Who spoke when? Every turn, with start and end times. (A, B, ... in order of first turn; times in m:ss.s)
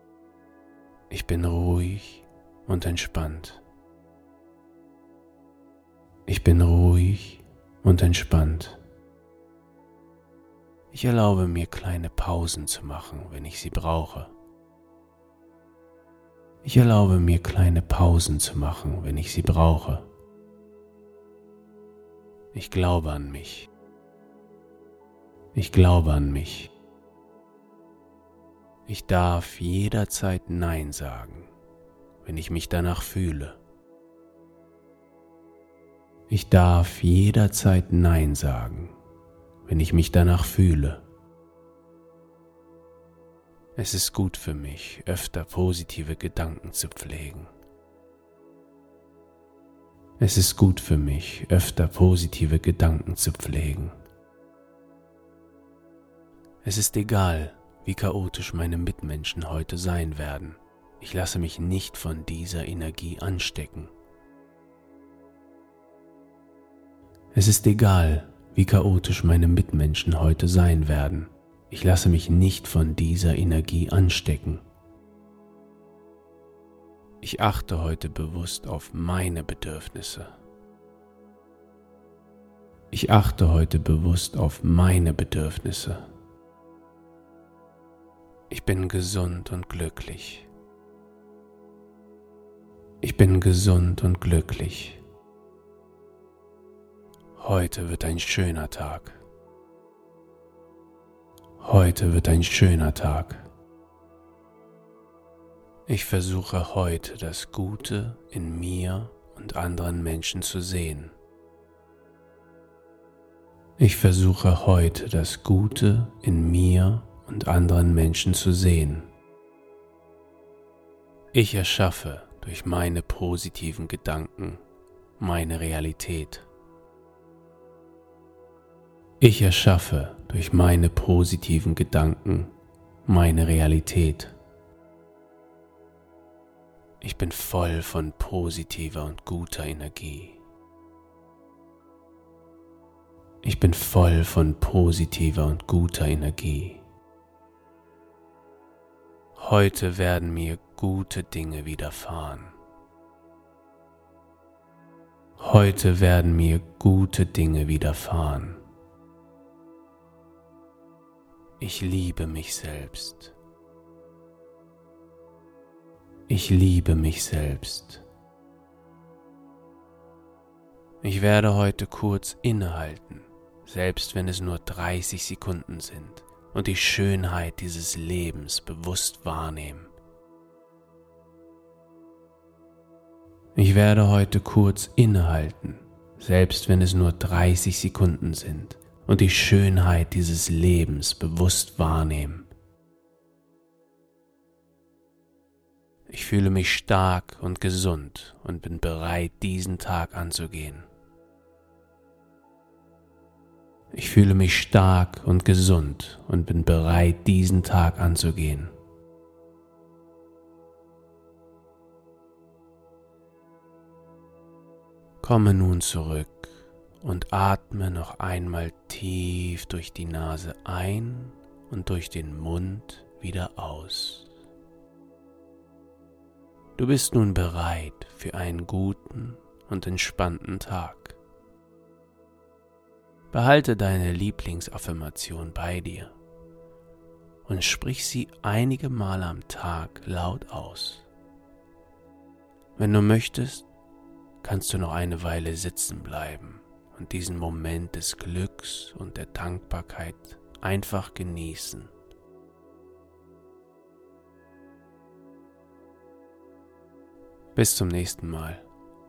0:01.1-0:03.6 A
0:06.3-0:08.8 A
0:10.9-0:14.3 A
0:16.6-0:20.0 A
0:22.5-0:23.7 A
0:25.5-0:26.7 A
0:28.8-0:31.5 A
0:32.2-0:33.6 A
0:36.3-0:38.9 A
0:39.6-0:41.0 A
0:43.8-0:47.5 A
0:50.2-0:53.9 A
0:56.6-1:03.9 A
1:07.3-1:14.6 A
1:17.2-1:20.3 A
1:22.9-1:26.0 A
1:28.5-1:30.5 A
1:33.0-1:35.0 A
1:37.3-1:39.2 A
1:41.6-1:43.4 A
1:45.9-1:51.1 A
1:53.8-1:59.1 A
2:01.3-2:04.6 A
2:05.2-2:06.5 A
2:09.2-2:12.5 A
2:13.0-2:14.3 A
2:17.0-2:20.4 A
2:23.4-2:26.8 A
2:29.4-2:32.5 A
2:35.4-2:38.6 A
2:41.6-2:43.3 A
2:46.3-2:48.0 A
2:51.0-2:59.9 A
3:03.5-3:12.5 A
3:16.1-3:20.8 A
3:23.9-3:28.7 A
3:35.2-3:44.3 A
3:46.8-3:51.2 A
3:53.3-3:56.1 A
3:57.4-4:01.1 A
4:02.8-4:03.7 A
4:04.4-4:11.9 A
4:17.5-4:18.6 A